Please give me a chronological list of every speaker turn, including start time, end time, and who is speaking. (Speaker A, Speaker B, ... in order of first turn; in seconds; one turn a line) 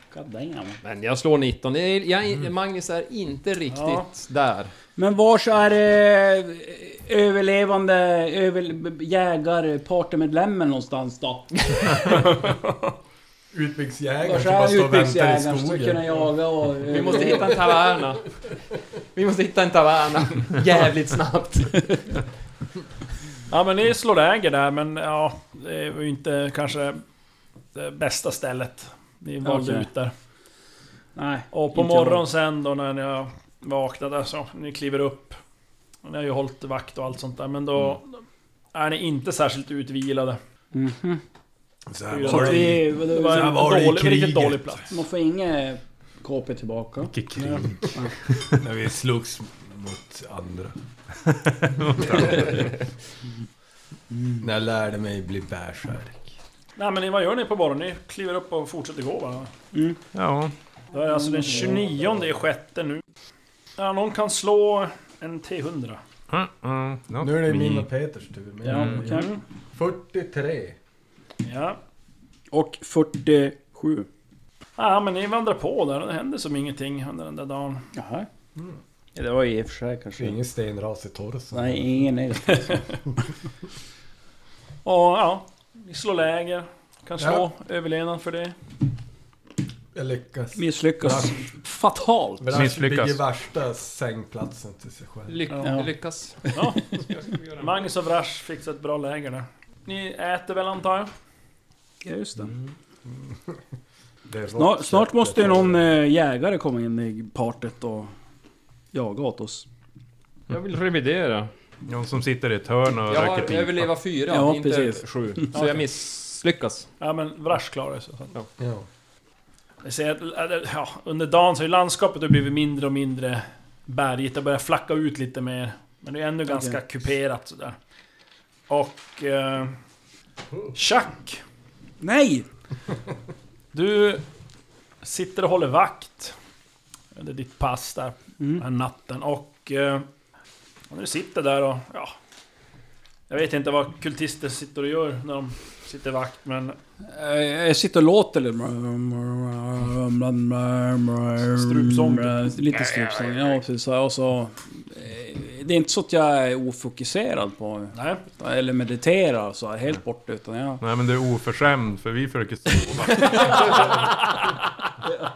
Speaker A: 0.1-0.8
Speaker B: 0.8-4.7
Speaker C: 3.7-4.1
Speaker A: 5.0-12.4
Speaker C: 12.1-12.9
Speaker D: 13.5-16.3
Speaker A: 14.2-17.7
Speaker B: 16.9-18.3
Speaker B: 19.1-22.2
Speaker C: 23.5-27.0
Speaker C: 27.8-30.1
Speaker A: 29.4-29.9
Speaker A: 31.2-32.2
Speaker C: 31.5-35.4
Speaker C: 36.0-40.4
Speaker A: 40.7-41.2
Speaker D: 41.9-44.8
Speaker C: 42.1-44.9
Speaker A: 42.2-43.7
Speaker A: 44.9-48.1
Speaker E: 47.1-48.7
Speaker D: 48.5-50.8
Speaker E: 51.2-52.7
Speaker D: 51.9-52.7
Speaker A: 54.1-54.5
Speaker D: 54.4-56.4
Speaker C: 56.8-59.5
Speaker A: 59.7-60.0
Speaker E: 60.1-60.5
Speaker C: 60.9-63.0
Speaker A: 61.1-61.8
Speaker D: 61.7-62.3
Speaker C: 63.8-66.0
Speaker E: 66.3-67.9
Speaker D: 67.2-70.8
Speaker A: 68.6-69.3
Speaker E: 68.7-69.0
Speaker C: 69.0-69.4
Speaker C: 71.4-71.8
Speaker A: 72.5-74.1
Speaker C: 74.8-77.9
Speaker A: 78.0-78.3
Speaker A: 79.1-80.4
Speaker D: 80.2-82.0
Speaker A: 81.5-83.1
Speaker C: 84.8-88.5
Speaker D: 87.2-87.5
Speaker D: 89.9-91.5
Speaker A: 90.5-92.7
Speaker D: 92.4-95.4
Speaker E: 92.5-93.2
Speaker B: 95.3-96.4
Speaker C: 96.5-97.0
Speaker B: 97.2-97.8
Speaker C: 97.6-101.1
Speaker A: 102.0-102.5
Speaker D: 104.3-105.8
Speaker A: 104.5-108.1
Speaker A: 108.9-109.7
Speaker B: 110.5-111.5
Speaker E: 111.9-113.9
Speaker B: 113.1-116.9
Speaker A: 114.3-115.5
Speaker C: 115.5-115.9
Speaker C: 117.0-118.3
Speaker D: 118.6-118.9
Speaker C: 119.8-127.8
Speaker A: 126.5-126.8
Speaker C: 128.7-129.8
Speaker C: 130.7-131.4
Speaker A: 132.0-132.5
Speaker C: 133.7-134.2
Speaker C: 135.0-136.4
Speaker C: 137.1-140.0
Speaker C: 140.9-142.1
Speaker C: 143.3-146.8
Speaker A: 147.1-160.8
Speaker C: 151.4-152.3
Speaker C: 157.9-158.2
Speaker E: 160.8-163.9
Speaker A: 163.3-163.9
Speaker C: 163.7-164.0